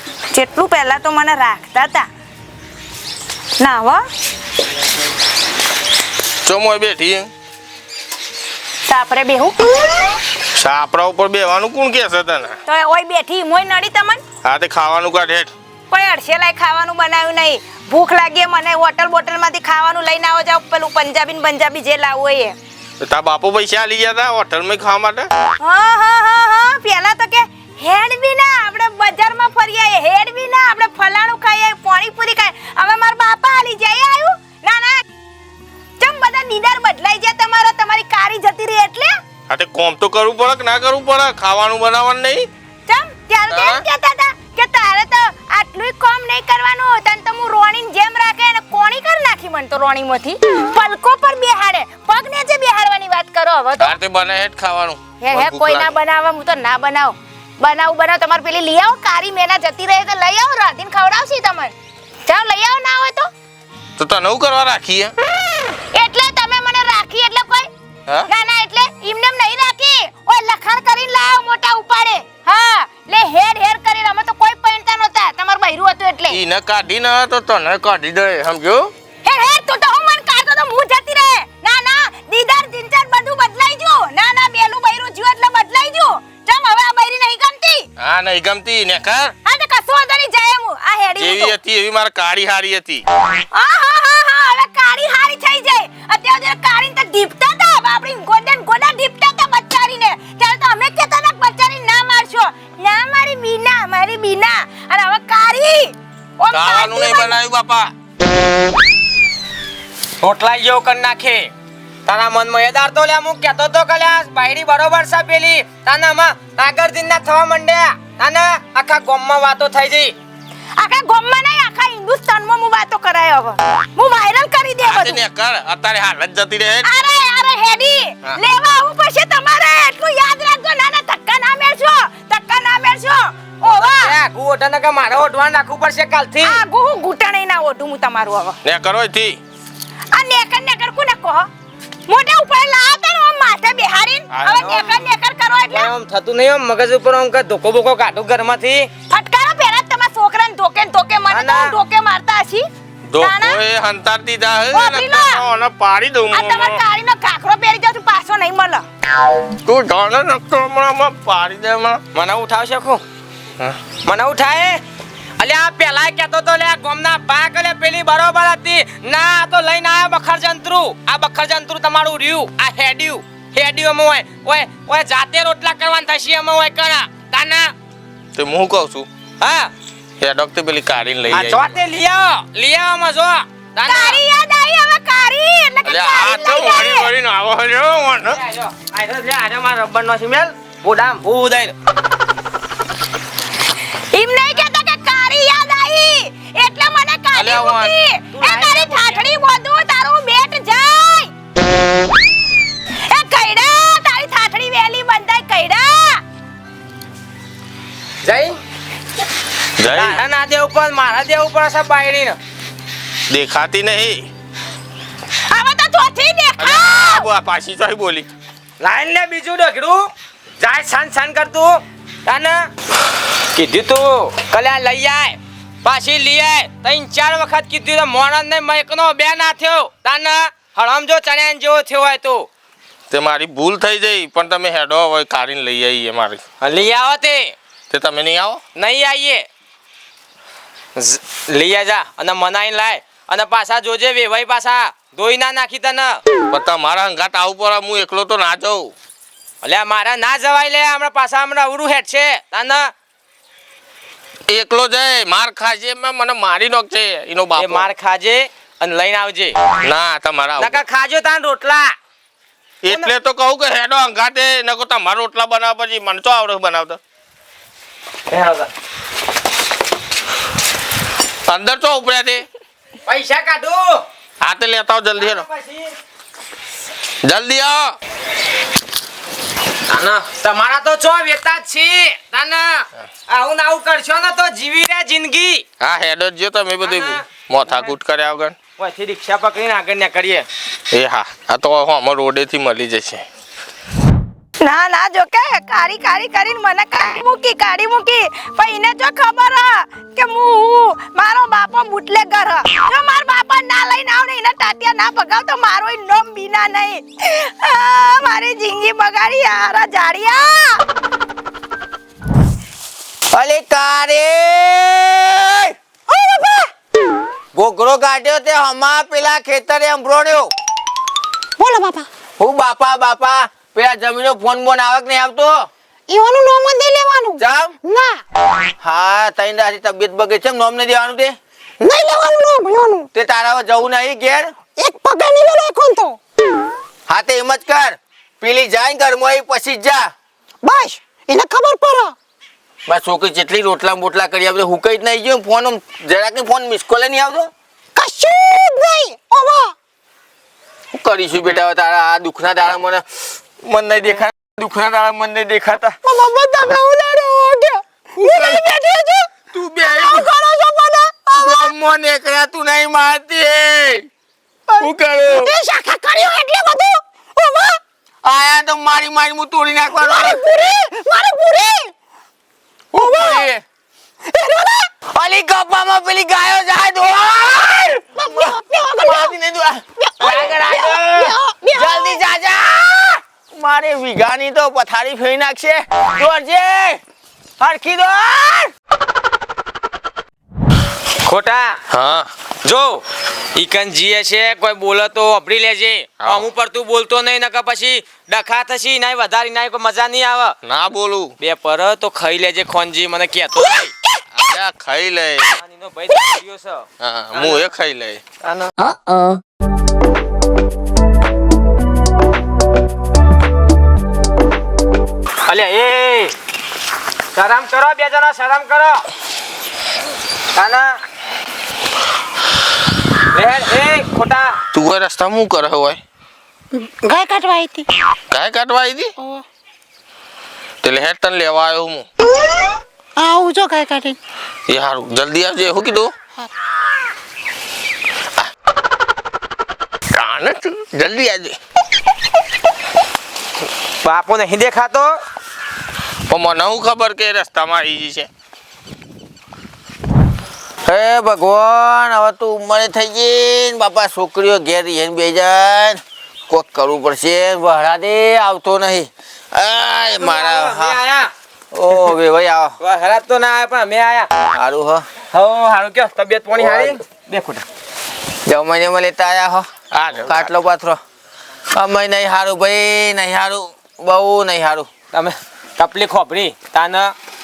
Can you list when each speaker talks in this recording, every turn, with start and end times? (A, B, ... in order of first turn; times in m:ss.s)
0:00.3-0:02.1 A
0:03.6-0:04.0 A
0:06.4-0:07.3 B
0:08.8-0:10.0 A
0:10.5-0:12.6 B
0:12.6-0:14.2 A
0:14.4-0:15.5 B
0:15.9-0:22.6 A
0:23.0-0:25.3 B
0:25.6-0:35.0 A
0:36.0-0:39.1 A
0:39.5-0:42.5 B
0:42.9-0:54.0 A
0:43.5-0:43.8 B
0:53.8-0:55.9 B
0:55.2-1:01.7 A
1:02.2-1:03.3 A
1:04.0-1:05.1 B
1:05.9-1:07.7 A
1:08.3-1:16.4 A
1:16.3-1:18.9 B
1:19.2-1:27.8 A
1:28.0-1:29.3 B
1:29.4-1:31.6 A
1:31.2-1:33.0 B
1:33.5-1:47.4 A
1:46.5-1:47.9 B
1:50.2-1:51.5 C
1:52.0-2:00.1 C
2:00.8-2:05.2 A
2:04.8-2:06.9 B
2:06.8-2:14.1 A
2:13.7-2:16.6 C
2:16.4-2:18.6 A
2:18.6-2:19.4 B
2:20.1-2:21.5 A
2:22.1-2:25.9 A
2:24.3-2:24.8 B
2:24.6-2:25.0 C
2:25.7-2:28.9 C
2:29.1-2:33.6 A
2:31.3-2:31.7 C
2:33.0-2:36.8 B
2:34.7-2:35.4 A
2:36.3-2:38.8 A
2:39.5-2:42.0 B
2:42.1-2:43.0 C
2:44.0-2:44.8 C
2:45.4-2:57.7 C
2:58.3-2:59.1 B
2:59.4-2:59.7 C
3:00.2-3:01.7 B
3:01.3-3:04.2 C
3:03.9-3:07.1 A
3:05.8-3:08.4 B
3:08.3-3:11.7 C
3:14.1-3:21.3 A
3:17.3-3:17.9 B
3:18.4-3:19.3 C
3:23.1-3:26.2 A
3:28.2-3:28.6 C
3:29.8-3:30.2 B
3:29.9-3:32.4 C
3:33.3-3:34.3 B
3:35.5-3:37.3 A
3:36.6-3:38.3 B
3:38.8-3:42.7 C
3:43.5-3:52.5 C
3:53.1-3:56.4 B
3:56.6-3:57.5 C
3:57.9-3:58.6 B
3:58.7-3:59.4 C
4:01.0-4:06.2 C
4:06.5-4:08.9 B
4:09.6-4:12.9 C
4:14.5-4:17.9 B
4:17.5-4:19.6 C
4:19.8-4:20.8 B
4:20.6-4:21.9 C
4:22.8-4:27.0 B
4:28.3-4:28.7 C
4:31.4-4:32.4 B
4:33.0-4:34.0 C
4:34.4-4:35.5 B
4:35.2-4:35.9 C
4:37.2-4:38.0 B
4:39.9-4:45.6 C
4:45.8-4:48.5 B
4:46.8-4:47.9 C
4:48.8-4:50.5 C
4:50.9-4:53.2 B
4:54.6-5:10.8 A
5:13.3-5:15.7 D
5:16.4-5:16.6 E
5:17.5-5:20.5 D
5:21.6-5:22.0 E
5:22.4-5:25.7 D
5:26.1-5:28.2 E
5:27.4-5:27.8 D
5:28.8-5:31.4 D
5:31.8-5:33.1 E
5:33.1-5:34.5 D
5:34.8-5:36.2 E
5:37.1-5:40.1 D
5:40.6-5:42.1 E
5:42.9-5:47.5 D
5:48.0-5:49.7 E
5:50.9-5:56.0 D
5:56.0-5:59.3 E
5:58.2-5:58.7 D
5:59.4-6:00.3 D
5:59.8-6:01.7 E
6:01.3-6:04.1 D
6:04.7-6:07.8 E
6:04.8-6:05.5 D
6:08.2-6:10.5 D
6:10.0-6:11.9 E
6:12.9-6:13.6 D
6:13.0-6:13.4 E
6:14.3-6:14.8 E
6:15.0-6:27.0 D
6:18.2-6:19.2 E
6:20.1-6:22.0 E
6:27.6-6:28.7 D
6:31.2-6:31.8 C
6:31.9-6:32.3 B
6:32.6-6:33.0 C
6:33.5-6:40.6 C
6:36.2-6:36.5 B
6:40.6-6:41.3 B
6:41.4-6:43.9 C
6:44.3-6:45.5 B
6:45.5-6:47.6 C
6:47.0-6:48.2 B
6:48.4-6:48.7 C
6:55.4-6:56.3 C
6:57.3-6:59.0 C
7:00.5-7:01.0 C
7:03.3-7:04.6 C
7:04.7-7:06.0 B
7:06.8-7:07.8 E
7:08.3-7:09.1 B
7:10.8-7:12.1 B
7:13.2-7:14.2 E
7:14.7-7:16.1 B
7:20.1-7:21.6 B
7:24.0-7:25.2 C
7:26.3-7:28.3 B
7:30.8-7:41.0 D
7:40.2-7:41.3 C
7:41.7-7:42.8 D
7:42.8-7:44.3 C
7:44.5-7:45.0 D
7:45.3-7:47.6 C
7:46.6-7:47.0 D
7:48.4-7:49.7 D
7:49.9-7:50.5 B
7:50.2-7:51.0 D
7:51.7-7:54.9 D
7:55.1-7:57.1 C